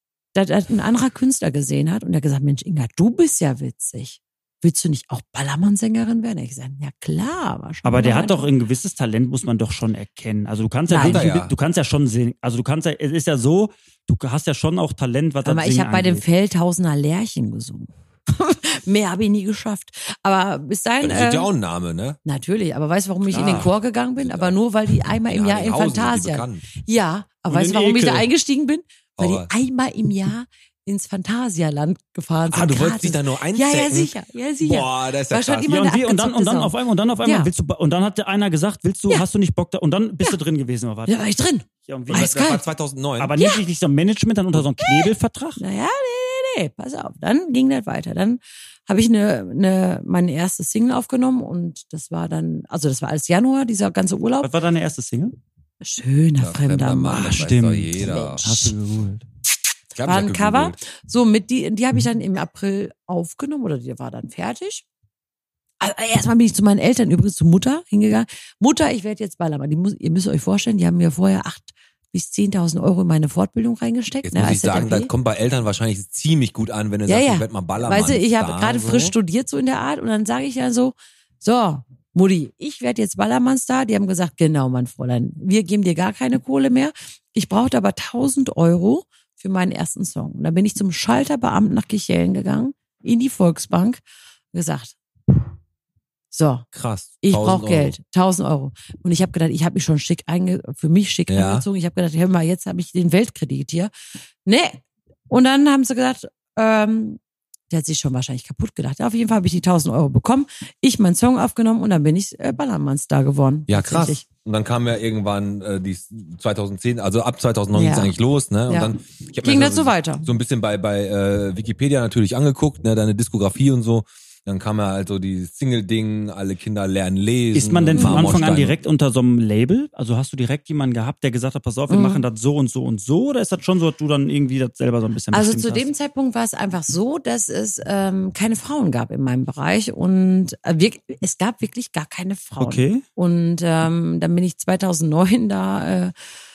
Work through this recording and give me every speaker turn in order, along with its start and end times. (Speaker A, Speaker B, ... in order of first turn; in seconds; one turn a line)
Speaker A: 0.3-8.5
Speaker B: 7.8-16.2
Speaker A: 10.9-11.2
Speaker C: 10.9-11.5
Speaker A: 15.4-21.5
Speaker C: 21.0-22.2
Speaker A: 22.2-37.5
Speaker B: 23.3-23.7
Speaker C: 23.4-24.6
Speaker C: 25.2-26.7
Speaker B: 27.5-28.3
Speaker C: 29.2-29.5
Speaker C: 32.5-35.7
Speaker B: 35.6-41.2
Speaker A: 41.1-42.6
Speaker B: 41.8-42.5
Speaker C: 42.1-43.3
Speaker B: 43.2-45.6
Speaker A: 44.8-54.5
Speaker B: 54.4-55.4
Speaker A: 55.8-58.7
Speaker C: 56.4-58.4
Speaker B: 57.1-59.2
Speaker C: 59.9-60.8
Speaker A: 60.0-64.8
Speaker A: 65.8-75.1
Speaker C: 74.2-79.1
Speaker A: 77.0-94.0
Speaker A: 94.5-95.0
Speaker A: 96.3-96.7
Speaker C: 96.7-98.0
Speaker A: 97.2-103.9
Speaker C: 101.3-101.7
Speaker A: 104.4-107.2
Speaker A: 107.7-114.2
Speaker C: 113.7-128.8
Speaker A: 117.7-118.1
Speaker A: 118.7-120.2
Speaker B: 127.5-135.9
Speaker A: 127.9-128.3
Speaker A: 131.9-132.2
Speaker A: 135.3-146.1
Speaker B: 142.6-143.0